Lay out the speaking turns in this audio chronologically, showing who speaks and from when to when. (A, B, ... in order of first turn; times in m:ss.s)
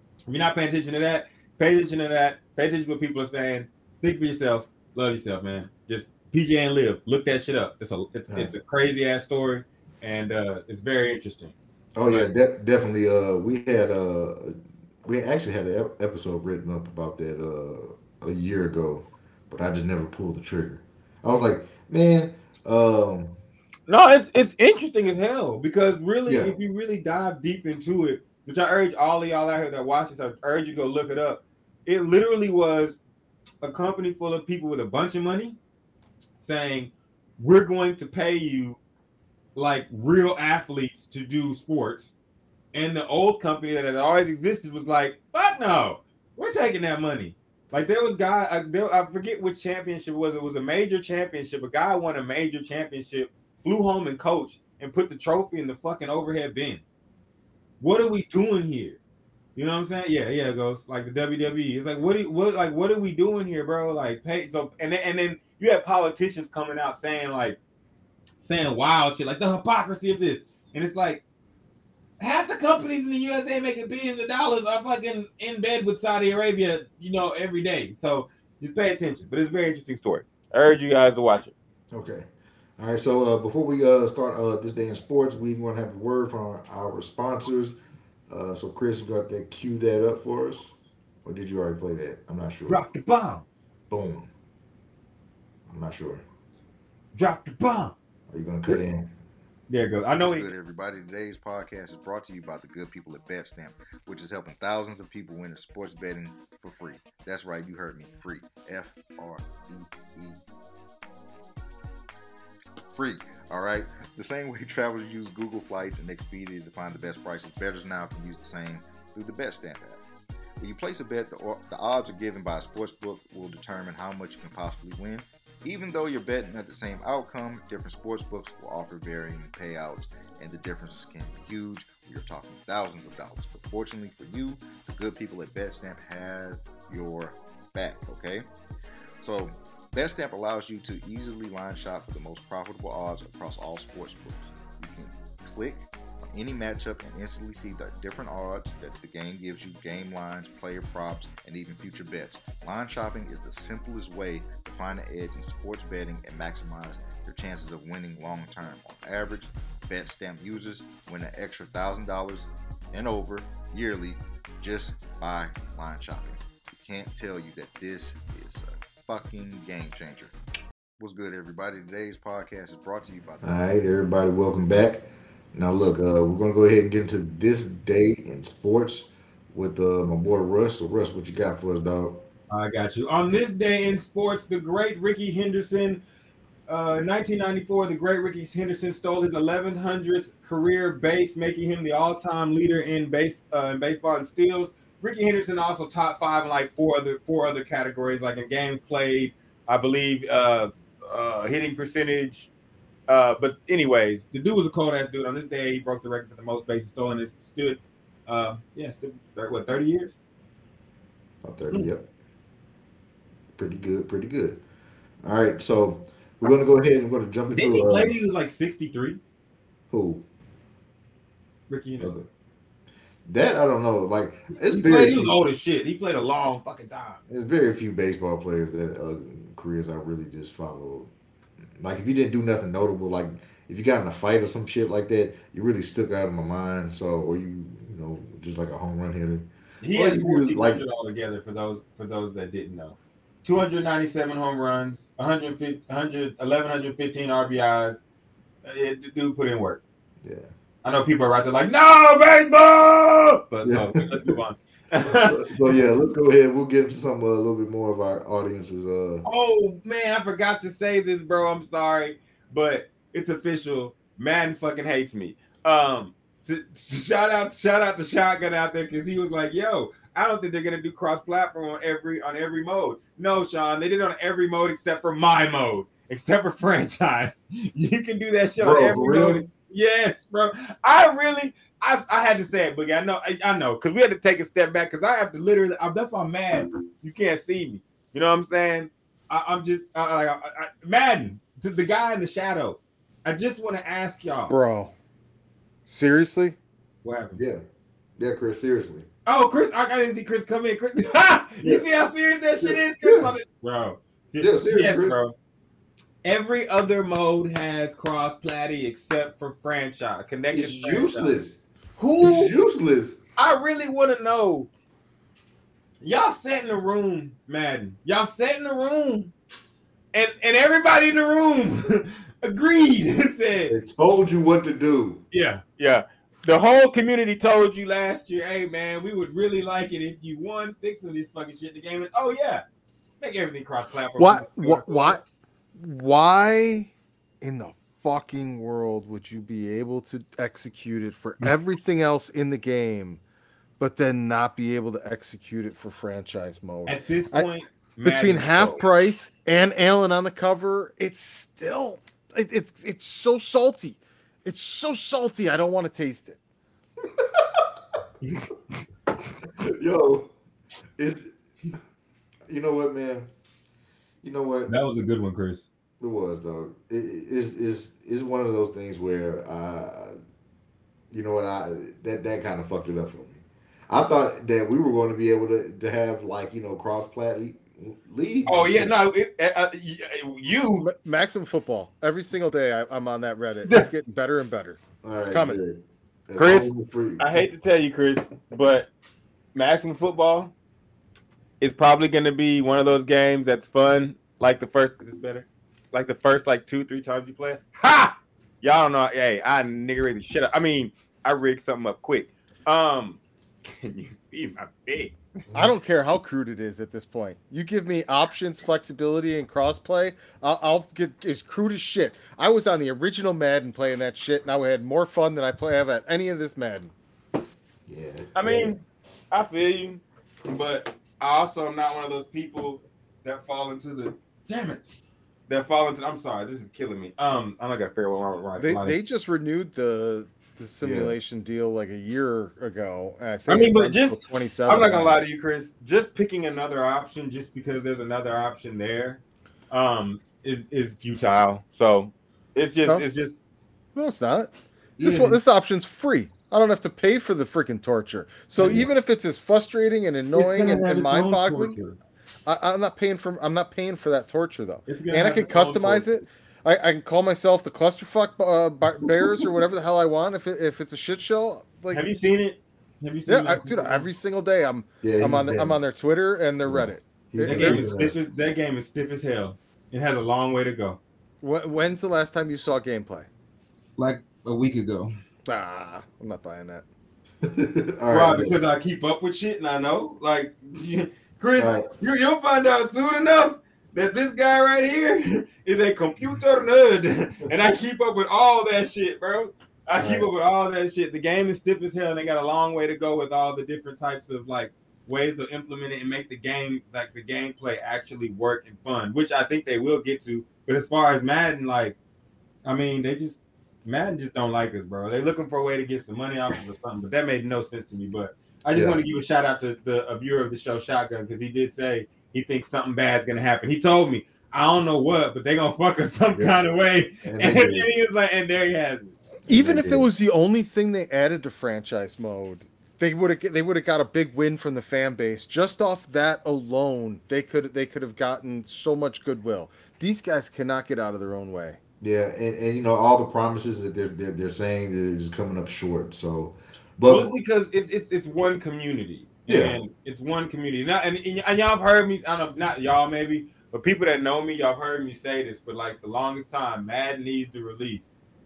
0:00.3-0:11.6 A
0:12.0-0:23.4 B
0:23.9-0:33.0 A
0:26.3-0:26.6 B
0:33.6-0:35.6 A
0:36.4-0:38.8 A
0:39.6-0:42.2 A
0:42.7-0:56.8 A
0:57.8-0:59.0 A
0:59.6-1:07.6 A
1:08.4-1:11.2 A
1:12.2-1:21.5 A
1:21.9-1:22.3 B
1:22.8-1:27.8 B
1:28.3-1:30.7 B
1:31.2-1:32.8 B
1:32.7-1:33.5 A
1:33.9-1:34.3 B
1:35.7-1:36.2 B
1:37.2-1:38.0 A
1:38.3-1:39.1 B
1:39.7-1:40.5 A
1:40.2-1:50.4 C
1:52.9-2:00.0 C
2:00.6-2:18.5 C
2:19.2-2:50.3 C
2:51.0-2:53.6 C
2:53.4-3:02.2 B
3:02.5-3:06.0 A
3:06.7-3:22.5 A
3:23.1-3:30.1 A
3:31.4-3:32.1 B
3:33.6-3:34.6 B
3:35.2-3:38.1 B
3:37.5-3:39.2 A
3:39.9-3:40.2 B
3:41.7-3:42.2 A
3:42.0-3:42.2 B
3:43.3-3:45.4 B
3:44.5-3:47.2 A
3:47.3-3:51.1 B
3:51.8-4:00.8 B
3:59.8-4:08.0 A
4:08.6-4:09.8 A
4:10.2-4:10.5 B
4:10.8-4:15.7 A
4:13.6-4:14.4 B
4:15.0-4:19.3 B
4:19.2-4:54.5 A
4:38.6-4:39.4 B
4:54.5-4:54.9 D
4:55.9-4:56.6 D
4:57.0-4:57.4 A
4:57.4-4:57.6 B
4:58.2-4:59.1 B
4:59.3-5:05.4 A
5:02.6-5:03.3 B
5:04.4-5:05.2 B
5:06.2-5:11.4 A
5:10.5-5:11.6 B
5:12.0-5:12.5 A
5:12.2-5:13.2 B
5:13.4-5:14.7 A
5:16.0-5:19.3 A
5:20.1-5:23.8 A
5:23.7-5:25.2 B
5:25.3-5:32.6 A
5:33.2-5:35.2 A
5:34.2-5:35.2 D
5:35.8-5:43.2 D
5:43.8-5:47.5 D
5:46.9-5:48.8 A
5:48.0-5:56.4 D
5:57.2-5:57.6 B
5:58.2-5:58.8 A
5:59.6-6:00.3 B
6:01.0-6:01.3 B
6:02.5-6:03.3 B
6:04.2-6:04.7 B
6:04.7-6:05.7 A
6:06.0-6:10.2 B
6:11.1-6:18.9 B
6:18.5-6:20.9 A
6:20.8-6:25.6 D
6:25.0-6:27.3 B
6:26.4-6:28.9 A
6:29.6-6:30.5 A
6:31.6-6:45.4 A
6:45.5-6:56.9 D
6:57.9-6:58.8 B
6:58.4-6:58.8 A
6:59.3-7:04.9 A
7:05.5-7:09.0 A
7:08.6-7:15.2 D
7:10.8-7:11.2 B
7:13.5-7:23.4 A
7:24.0-7:31.8 D
7:25.0-7:25.4 B
7:28.6-7:28.9 B
7:30.4-7:32.0 A
7:32.5-7:42.0 D
7:34.9-7:36.1 A
7:39.2-7:39.5 B
7:41.9-7:44.1 A
7:43.3-7:48.1 D
7:45.0-7:45.8 B
7:46.6-7:48.2 B
7:47.4-7:51.0 A
7:51.4-7:53.3 D
7:54.0-7:55.2 A
7:55.5-7:56.8 D
7:57.4-7:58.6 B
7:58.1-8:22.0 A
8:01.6-8:01.9 B
8:10.0-8:10.3 B
8:22.6-8:39.2 A
8:28.7-8:29.0 B
8:37.2-8:37.9 B
8:39.5-8:40.1 B
8:39.5-8:51.8 D
8:52.0-8:57.3 B
8:57.1-9:08.2 A
8:59.5-8:59.8 B